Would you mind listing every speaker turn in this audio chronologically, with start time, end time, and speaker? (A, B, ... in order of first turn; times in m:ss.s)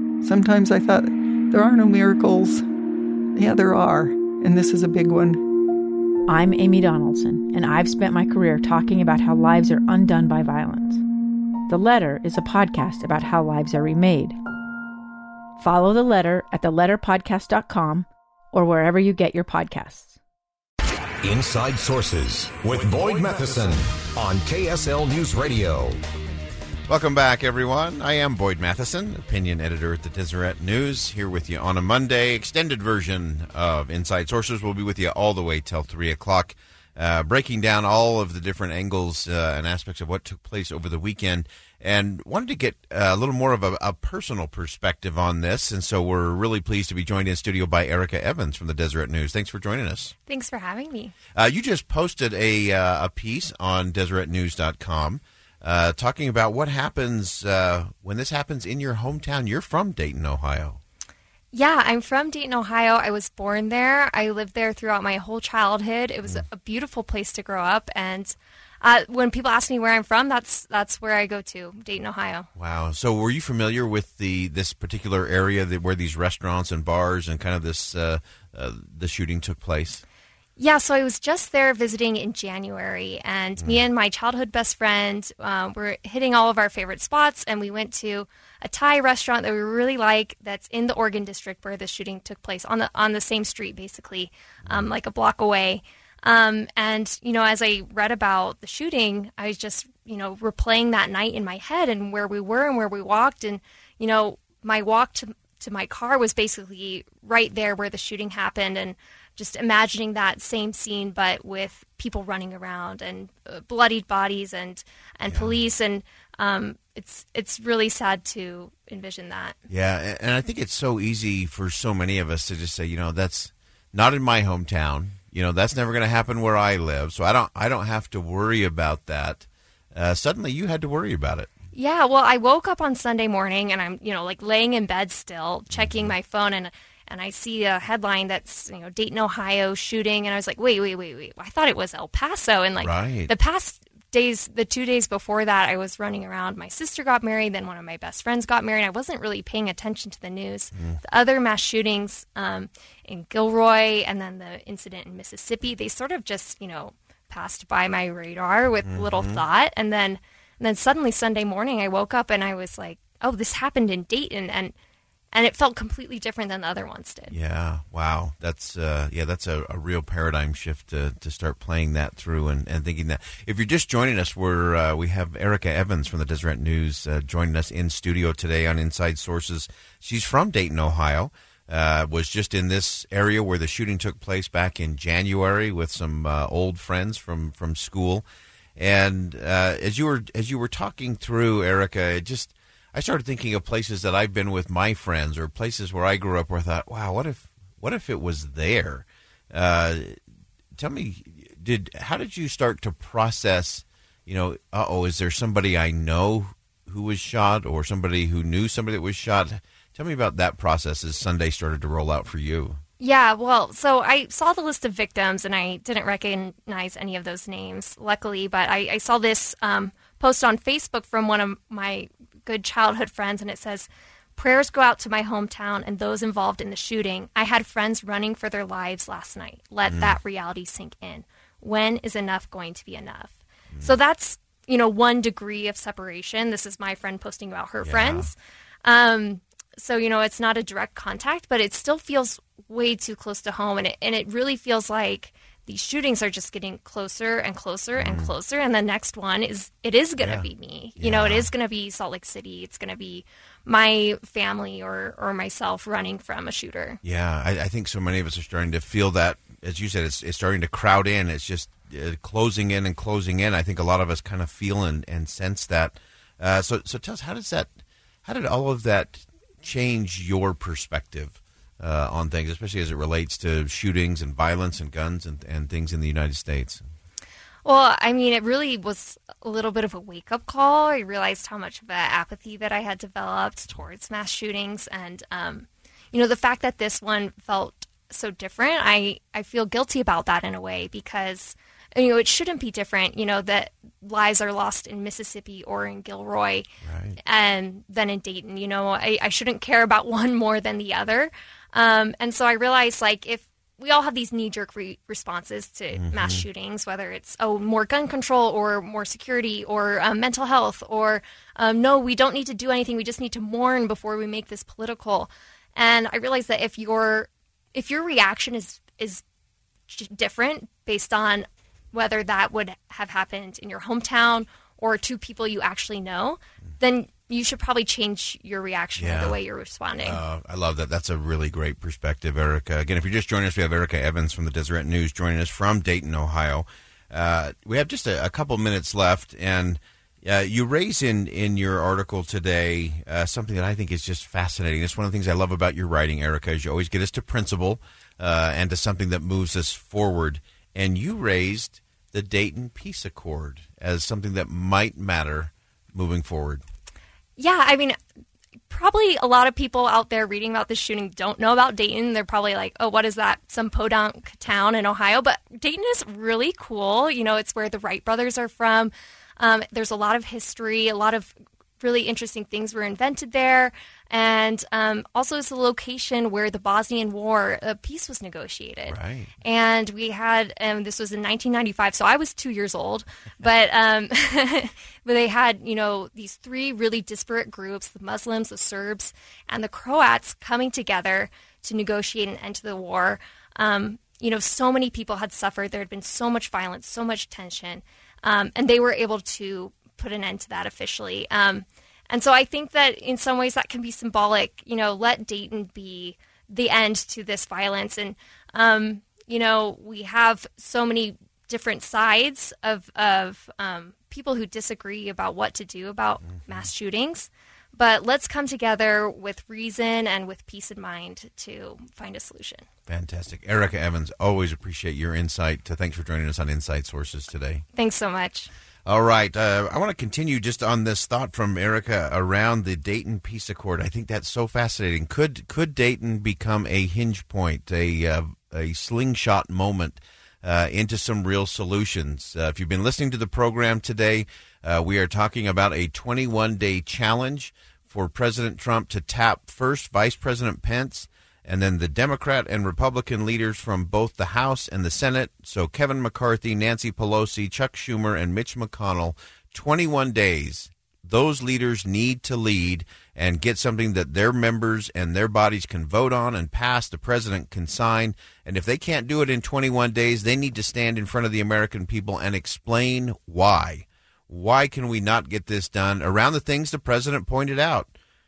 0:00.2-0:02.6 A
0:03.4-0:05.4 A
0:06.3-0:11.0 B
0:11.7-0:14.4 B
0:15.6-0:20.2 B
0:21.2-0:26.0 C
0:26.9-0:50.2 D
0:50.3-0:51.1 E
0:51.3-1:00.8 D
1:01.5-1:12.5 E
1:12.6-1:20.0 D
1:20.6-1:59.6 E
1:23.6-1:23.8 D
1:55.3-1:55.6 D
1:59.7-2:11.5 D
2:11.7-2:44.7 E
2:15.7-2:16.1 D
2:22.8-2:23.3 D
2:30.8-2:31.0 D
2:38.8-2:39.4 D
2:45.3-2:47.4 E
2:47.3-3:08.2 D
3:08.8-3:20.2 D
3:20.8-3:32.8 D
3:33.0-4:17.0 E
3:49.9-3:50.2 D
3:57.8-3:58.3 D
4:08.0-4:08.3 D
4:10.2-4:10.5 D
4:11.0-4:11.5 D
4:17.0-4:27.7 D
4:28.3-4:36.8 D
4:37.6-4:56.7 E
4:56.8-4:57.2 D
4:57.2-5:19.2 E
5:06.0-5:06.4 D
5:19.9-5:30.2 E
5:29.0-5:29.4 D
5:30.0-5:56.6 D
5:57.4-5:58.0 E
5:58.7-7:02.6 E
6:18.9-6:19.4 D
6:56.3-6:56.7 D
7:02.9-7:07.6 D
7:07.8-7:08.5 E
7:08.9-7:57.9 D